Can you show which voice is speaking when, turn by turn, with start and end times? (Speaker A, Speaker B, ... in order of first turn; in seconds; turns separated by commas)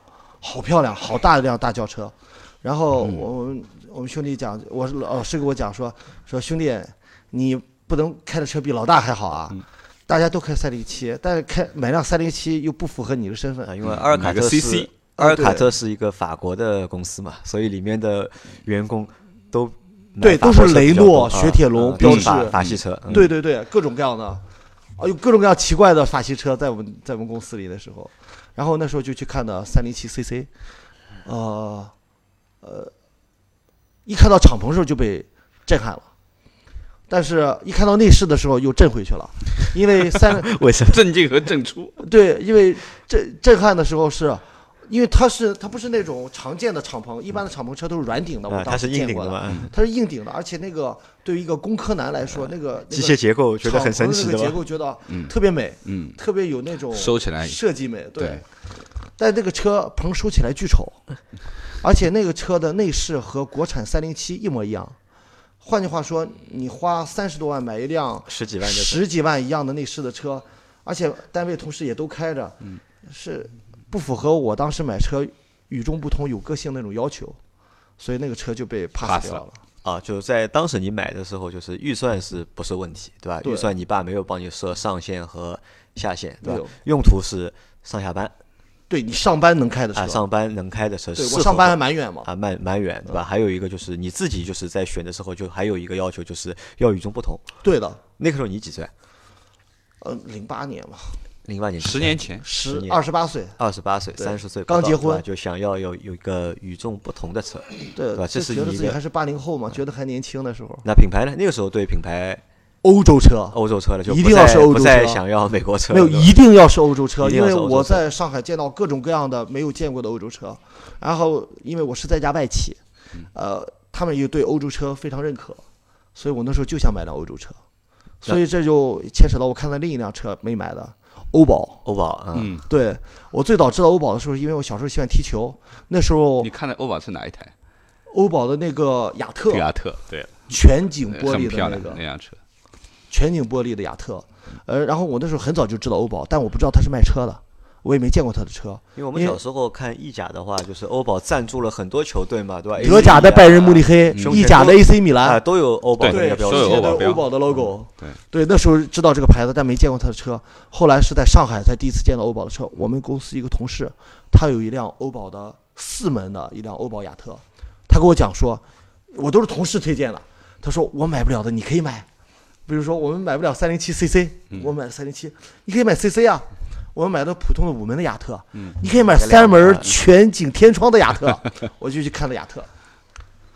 Speaker A: 0.4-13.7, Speaker B: 3.0-3.3, Speaker C: 13.6-23.3, Speaker B: 13.8-14.9, Speaker A: 15.2-15.7, Speaker A: 20.2-24.4, Speaker B: 22.0-22.8, Speaker A: 25.0-30.5, Speaker A: 31.2-31.9, Speaker A: 32.6-32.9, Speaker A: 34.1-36.1, Speaker A: 37.1-40.5, Speaker C: 40.3-41.1, Speaker B: 40.9-42.0, Speaker A: 42.0-58.4, Speaker C: 48.5-49.7, Speaker C: 52.4-54.6, Speaker B: 55.1-56.2, Speaker B: 56.9-57.6, Speaker B: 58.2-58.4, Speaker A: 59.2-61.0, Speaker A: 61.8-65.0, Speaker A: 65.6-77.4, Speaker C: 68.3-69.0, Speaker A: 78.0-79.6, Speaker B: 79.0-79.4, Speaker C: 79.8-88.3, Speaker A: 83.4-83.7, Speaker A: 86.4-86.7, Speaker A: 88.9-90.2, Speaker C: 89.9-97.4, Speaker A: 91.2-92.3, Speaker A: 97.6-98.0, Speaker C: 98.2-98.9, Speaker A: 100.0-101.2, Speaker C: 101.5-103.0, Speaker B: 101.8-102.4, Speaker A: 102.4-103.6, Speaker C: 103.6-109.0, Speaker A: 104.2-105.2, Speaker A: 107.9-110.8, Speaker C: 110.8-112.4, Speaker A: 112.8-115.2, Speaker C: 113.5-116.4, Speaker A: 115.9-122.8, Speaker C: 117.2-118.0, Speaker A: 123.3-125.6, Speaker A: 126.1-127.6, Speaker A: 128.2-131.8, Speaker C: 131.8-132.5, Speaker B: 132.3-132.7, Speaker A: 132.7-136.5, Speaker B: 136.4-137.5, Speaker A: 138.1-139.7, Speaker B: 139.5-140.4, Speaker A: 140.5-142.0, Speaker B: 141.1-142.4, Speaker A: 143.1-149.4, Speaker C: 148.9-157.7, Speaker A: 152.8-155.4, Speaker B: 154.1-154.5, Speaker B: 156.0-157.3, Speaker A: 156.0-172.1, Speaker A: 172.7-182.7, Speaker C: 178.9-180.0